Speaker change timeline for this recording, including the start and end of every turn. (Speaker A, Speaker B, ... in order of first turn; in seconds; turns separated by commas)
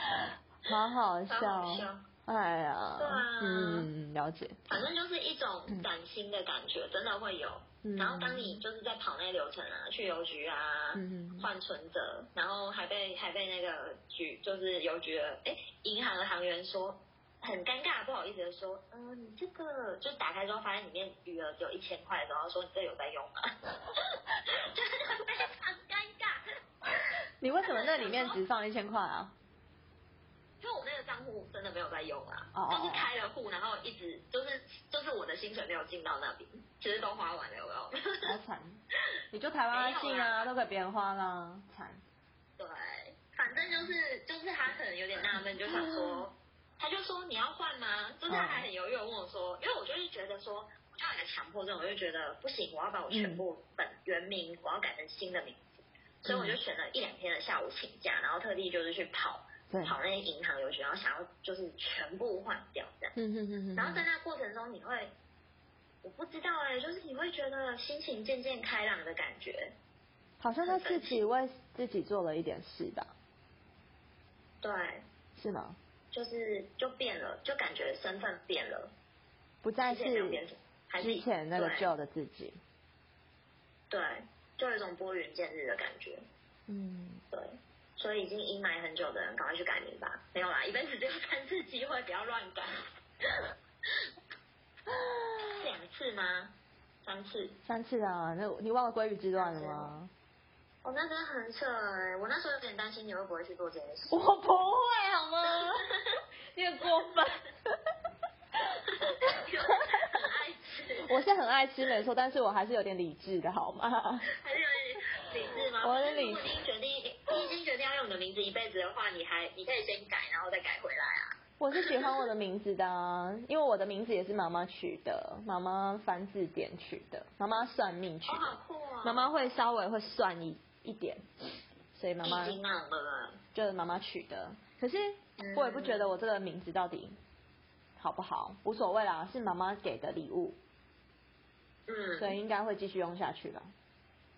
Speaker A: 0.2-4.6, Speaker B: 1.3-2.0, Speaker B: 3.0-3.9, Speaker B: 4.7-26.4, Speaker A: 7.8-8.6, Speaker A: 10.9-11.5, Speaker A: 27.4-29.3, Speaker B: 27.6-28.4, Speaker B: 30.6-38.4, Speaker A: 32.5-33.1, Speaker A: 38.2-38.8, Speaker A: 39.3-42.0, Speaker B: 39.7-40.5, Speaker B: 42.6-63.1, Speaker A: 43.6-43.9, Speaker A: 45.3-46.3, Speaker A: 48.3-48.7, Speaker A: 53.1-53.4, Speaker A: 56.3-56.6, Speaker A: 59.7-60.0, Speaker A: 63.2-64.1, Speaker B: 63.8-65.1, Speaker B: 66.0-69.7, Speaker A: 70.4-73.1, Speaker B: 70.7-71.3, Speaker B: 74.6-75.0, Speaker A: 75.4-75.8, Speaker B: 76.1-78.9, Speaker A: 79.6-80.4, Speaker B: 79.8-81.9, Speaker A: 81.0-82.6, Speaker B: 83.9-86.2, Speaker A: 86.7-87.2, Speaker B: 87.3-92.7, Speaker A: 94.9-95.5, Speaker B: 95.4-96.5, Speaker B: 97.0-97.6, Speaker A: 97.7-100.1, Speaker B: 99.3-100.0, Speaker B: 100.8-104.2, Speaker A: 104.1-105.9, Speaker A: 106.5-107.7, Speaker A: 108.7-109.9, Speaker B: 108.8-111.2, Speaker A: 111.0-114.3, Speaker B: 114.3-122.1, Speaker A: 115.8-116.6, Speaker A: 121.6-131.2, Speaker B: 128.3-129.3, Speaker A: 131.9-132.6, Speaker B: 132.2-133.4, Speaker A: 133.5-137.2, Speaker B: 135.4-136.2, Speaker A: 138.0-140.6, Speaker B: 141.9-142.4, Speaker A: 142.2-143.7